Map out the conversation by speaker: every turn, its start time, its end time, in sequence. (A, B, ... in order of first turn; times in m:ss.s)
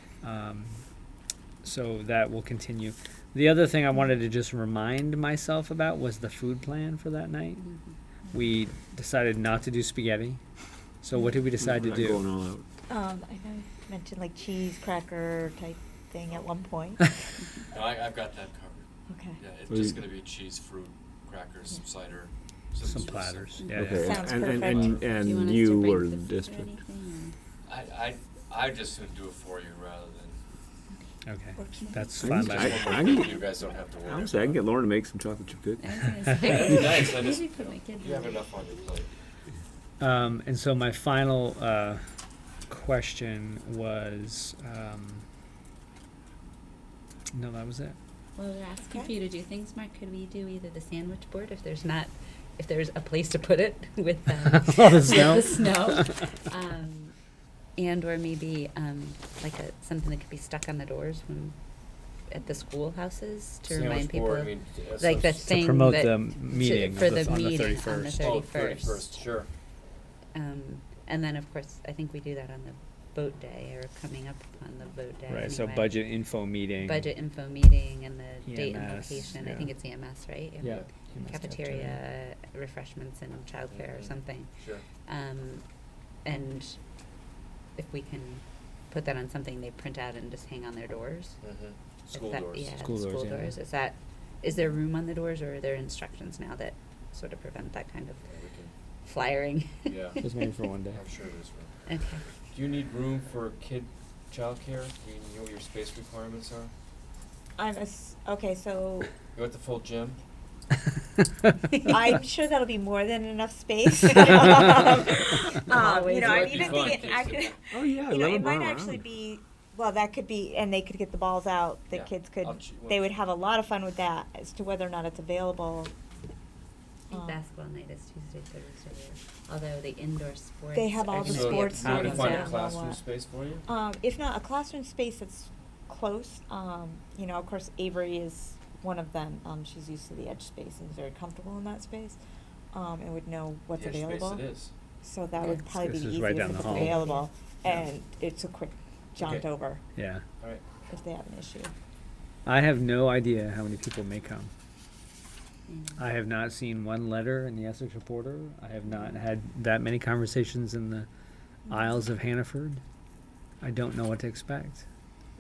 0:00.2-0:00.8 A
0:01.6-0:07.7 A
0:07.6-0:08.0 B
0:08.3-0:10.4 A
0:11.0-0:12.2 A
0:11.6-0:12.6 C
0:12.9-0:17.6 D
0:17.7-0:18.9 E
0:19.1-0:19.4 D
0:19.4-0:23.8 E
0:19.7-0:20.0 C
0:22.8-0:24.1 A
0:23.6-0:24.5 B
0:23.7-0:26.7 C
0:24.0-0:25.0 D
0:24.5-0:25.1 E
0:25.0-0:27.4 B
0:27.7-0:30.4 E
0:31.3-0:32.9 A
0:31.6-0:32.2 D
0:31.8-0:33.3 B
0:32.2-0:33.4 C
0:32.3-0:34.6 E
0:34.0-0:35.9 C
0:35.8-0:38.8 B
0:36.4-0:39.1 E
0:40.0-0:42.0 A
0:42.7-0:45.2 A
0:47.3-0:48.0 A
0:48.4-0:57.2 B
0:48.9-0:49.1 D
0:54.5-0:55.8 A
0:57.8-1:01.6 B
1:02.3-1:09.2 B
1:03.6-1:05.5 E
1:05.5-1:08.3 A
1:08.1-1:09.5 E
1:10.4-1:16.1 B
1:15.3-1:17.1 A
1:16.8-1:25.6 B
1:18.5-1:19.7 A
1:20.6-1:22.0 A
1:20.6-1:20.9 E
1:23.7-1:24.9 E
1:26.2-1:26.8 B
1:27.8-1:31.4 B
1:31.4-1:32.7 E
1:32.1-1:38.2 B
1:32.8-1:33.6 A
1:38.2-1:38.7 E
1:39.1-1:40.2 B
1:39.9-1:40.2 E
1:40.2-1:41.0 A
1:40.9-1:41.7 E
1:41.9-1:42.2 B
1:42.5-1:46.7 E
1:47.6-1:49.2 D
1:49.3-1:50.2 E
1:51.9-2:05.9 D
1:55.7-1:57.0 B
1:55.8-1:57.6 E
1:57.7-1:59.0 C
2:01.9-2:03.1 E
2:07.1-2:07.4 D
2:07.1-2:12.6 B
2:10.7-2:13.0 D
2:11.2-2:13.7 E
2:11.8-2:12.4 A
2:13.6-2:22.2 D
2:22.7-2:24.5 D
2:23.7-2:24.7 E
2:25.0-2:29.8 D
2:25.7-2:27.0 A
2:26.6-2:27.2 B
2:29.2-2:29.5 E
2:30.0-2:30.2 A
2:30.9-2:31.7 D
2:32.5-2:34.5 A
2:35.7-2:36.0 B
2:36.0-2:41.1 A
2:41.7-2:42.8 A
2:43.6-2:44.9 A